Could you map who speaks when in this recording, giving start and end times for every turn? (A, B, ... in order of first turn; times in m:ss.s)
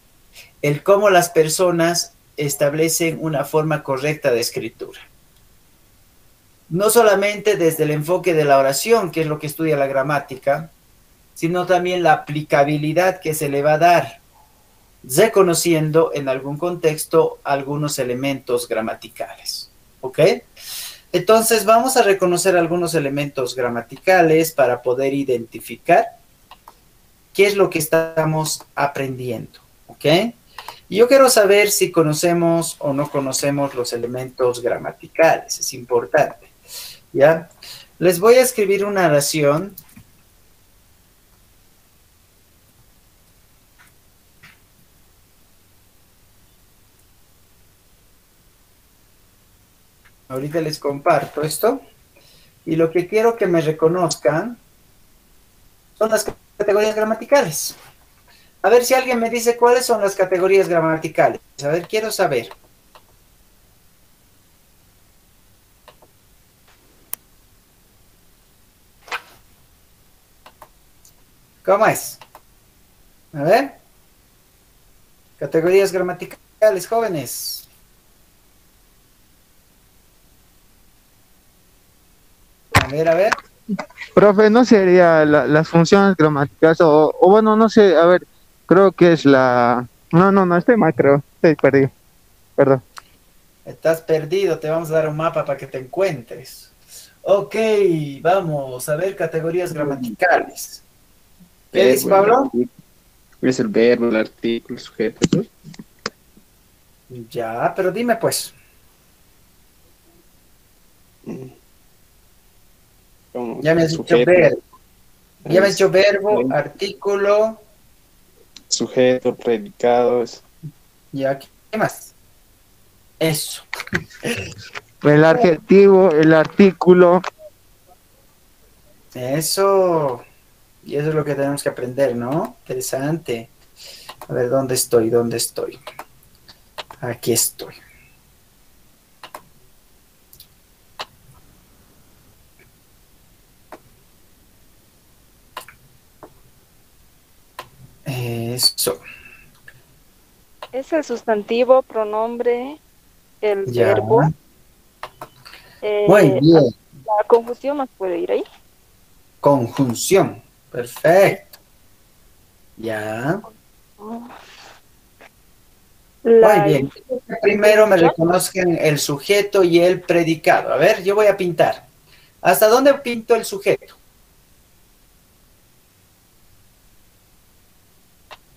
0:00.6-0:05.1 A
0:06.7-0:10.7 A
0:11.4-0:14.2 A
0:15.0-0:20.4 A
0:21.1-0:26.2 A
0:27.3-0:30.4 A
0:30.9-0:36.5 A
0:37.1-0:39.8 A
0:50.3-0:51.8 A
0:52.7-0:54.6 A
0:56.0-0:57.8 A
0:58.6-1:02.5 A
1:11.6-1:12.2 A
1:13.3-1:13.8 A
1:15.4-1:17.7 A
1:22.7-1:23.4 A
1:24.2-1:31.9 B
1:32.6-1:32.8 B
1:33.7-1:36.7 A
1:37.2-1:40.8 A
1:39.8-1:40.1 C
1:41.7-1:42.7 C
1:41.7-1:42.5 A
1:43.4-1:45.5 C
1:47.1-1:48.5 A
1:51.3-1:51.5 C
1:53.3-1:54.5 C
1:53.6-1:54.6 A
1:55.4-1:56.5 C
1:55.5-1:57.6 A
1:58.7-2:00.4 C
2:01.1-2:02.1 A
2:03.2-2:03.6 A
2:05.0-2:07.2 B
2:09.1-2:10.2 A
2:10.8-2:13.5 A
2:14.3-2:15.8 A
2:17.0-2:17.8 A
2:28.1-2:29.0 A
2:30.7-2:32.8 D
2:33.4-2:34.3 D
2:33.7-2:34.3 A
2:35.8-2:38.4 D
2:36.1-2:36.7 A
2:39.4-2:41.6 A
2:42.8-2:43.4 A
2:44.0-2:44.3 D
2:46.3-2:46.9 D
2:46.4-2:51.9 A
2:47.6-2:48.1 D
2:52.4-2:54.0 A